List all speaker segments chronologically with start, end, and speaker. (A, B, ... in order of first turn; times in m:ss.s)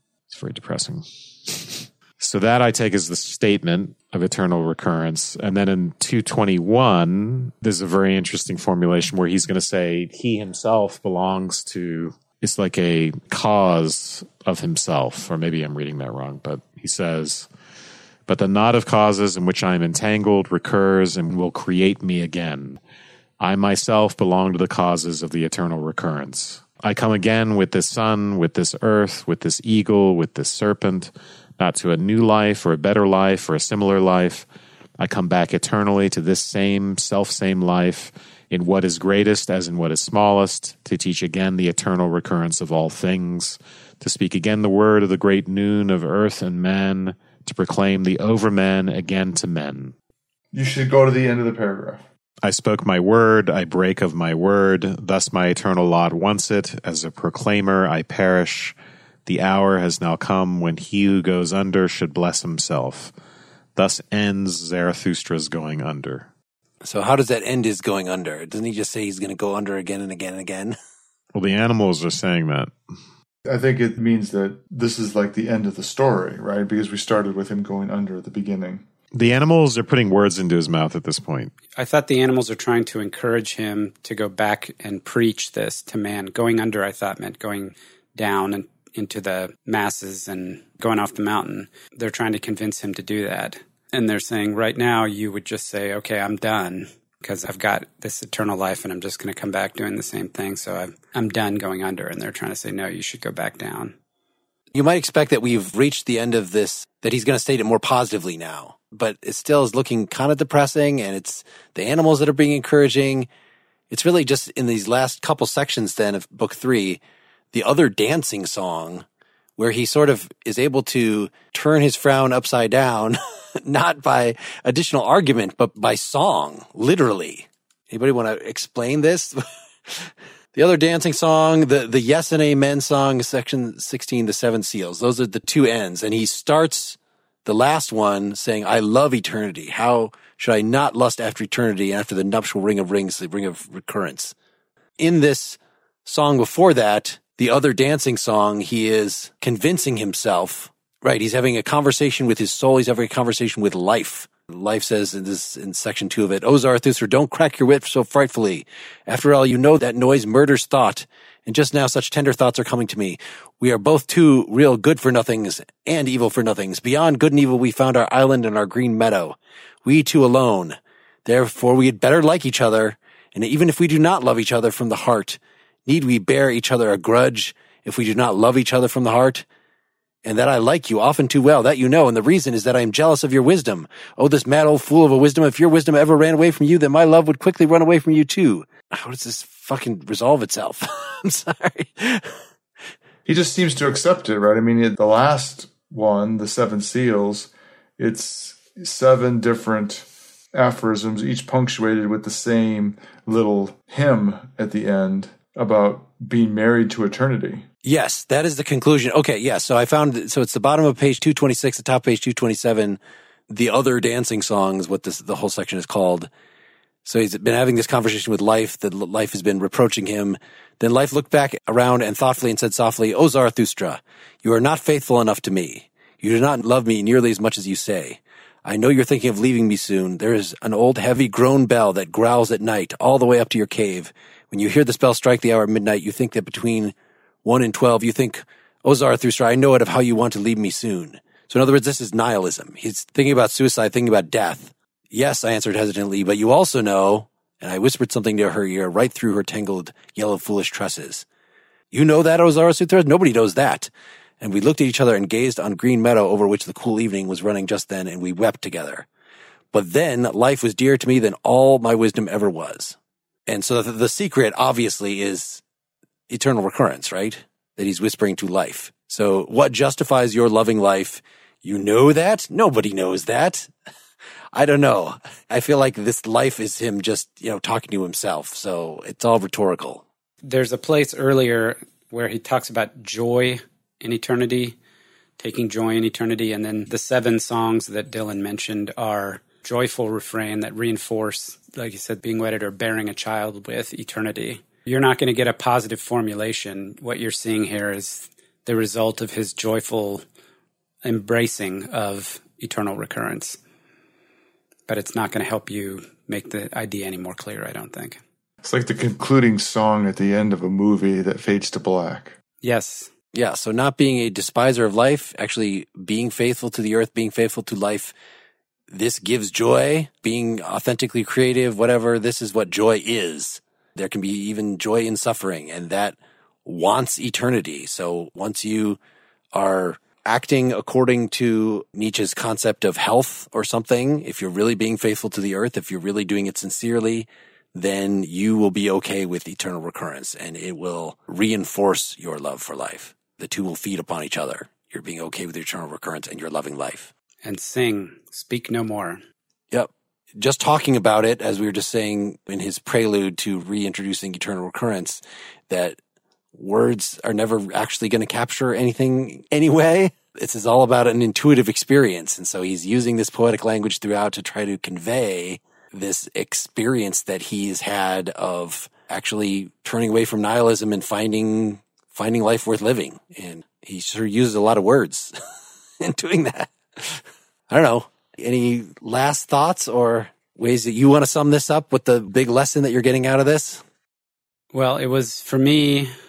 0:00.3-0:17.5 A
0:18.3-0:22.8 A
0:23.4-0:34.5 A
0:35.0-0:50.0 A
0:50.5-0:52.0 B
0:52.4-1:03.1 A
1:03.8-1:06.3 A
1:06.8-1:10.8 C
1:11.3-1:12.7 A
1:13.5-1:18.8 B
1:19.1-1:21.5 A
1:21.8-1:43.9 D
1:44.7-1:53.3 C
1:53.9-1:57.0 C
1:57.5-1:59.0 C
1:59.6-2:24.3 C
2:25.0-2:59.4 C
3:00.2-3:12.3 C
3:13.3-3:27.6 B
3:27.8-3:33.0 C
3:33.5-3:36.3 C
3:37.0-4:11.2 C
4:11.9-4:13.9 C
4:14.4-4:19.1 C
4:19.7-4:23.0 C
4:23.5-4:25.6 C
4:26.3-4:33.7 C
4:34.5-4:40.0 C
4:40.4-4:44.8 D
4:45.4-5:00.2 D
5:01.0-5:03.6 D
5:04.9-5:08.2 D
5:08.6-5:12.4 B
5:12.6-5:13.1 D
5:13.3-5:18.1 C
5:18.9-5:29.0 C
5:29.5-5:47.1 C
5:47.4-5:49.2 D
5:49.7-5:56.0 C
5:56.6-6:15.3 C
6:16.0-6:23.8 C
6:24.7-6:26.1 D